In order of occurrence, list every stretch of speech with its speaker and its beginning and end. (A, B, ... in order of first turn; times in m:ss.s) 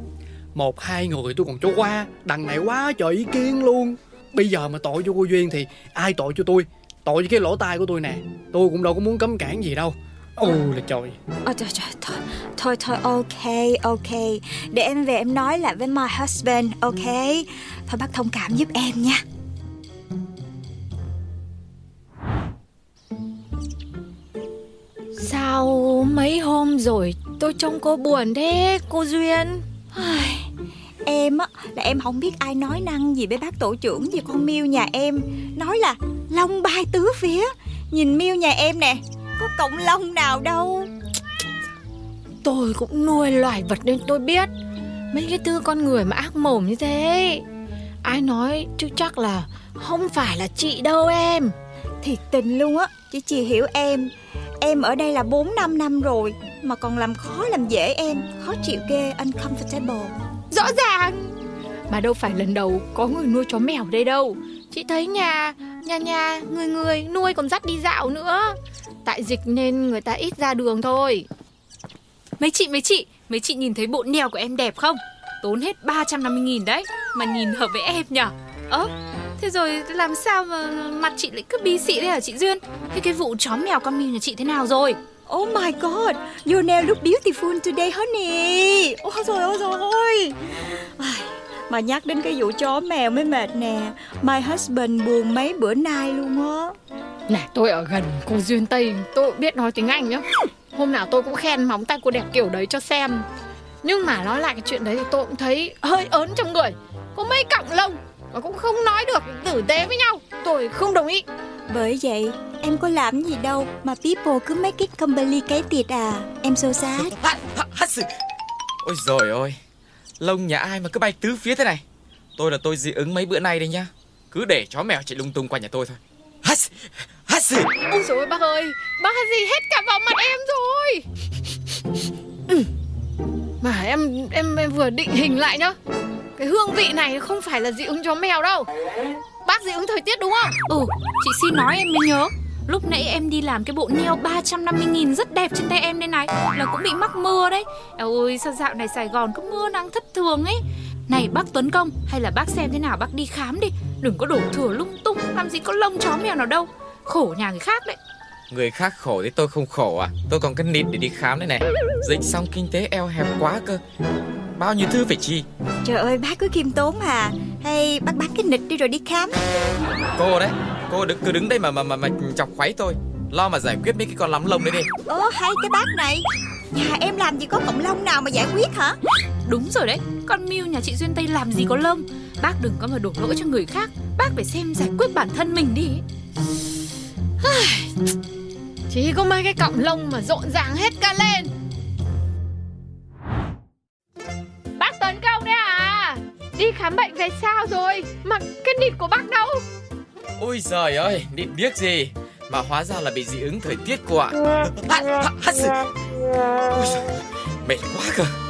0:00.6-0:11.2 A
0:11.5-0:19.2 B
0:25.1-0:29.6 C
0:29.9-0:30.5 B
0:31.1-0:40.9 B
0:42.4-0:44.5 C
0:45.1-0:47.4 C
0:48.0-0:51.5 C
0:52.0-1:00.2 B
1:00.5-1:01.4 C
1:01.9-1:11.3 C
1:12.4-1:25.0 D
1:25.3-1:36.8 B
1:37.3-1:43.3 C
1:43.8-1:51.3 C
1:51.7-1:57.1 B
1:57.0-1:58.1 E
1:58.8-1:59.6 E
2:00.2-2:01.8 E
2:02.4-2:07.7 E
2:07.9-2:11.0 C
2:13.6-2:15.8 C
2:16.4-2:18.7 C
2:19.4-2:20.6 C
2:20.7-2:38.0 D
2:38.5-2:43.8 E
2:44.6-2:45.5 E
2:45.8-2:49.4 B
2:50.2-2:54.9 E
2:55.1-2:59.0 B
2:59.5-3:06.0 D
3:07.4-3:07.9 C
3:08.9-3:11.5 C
3:14.8-3:19.6 C
3:20.4-3:25.8 E
3:26.7-3:28.3 E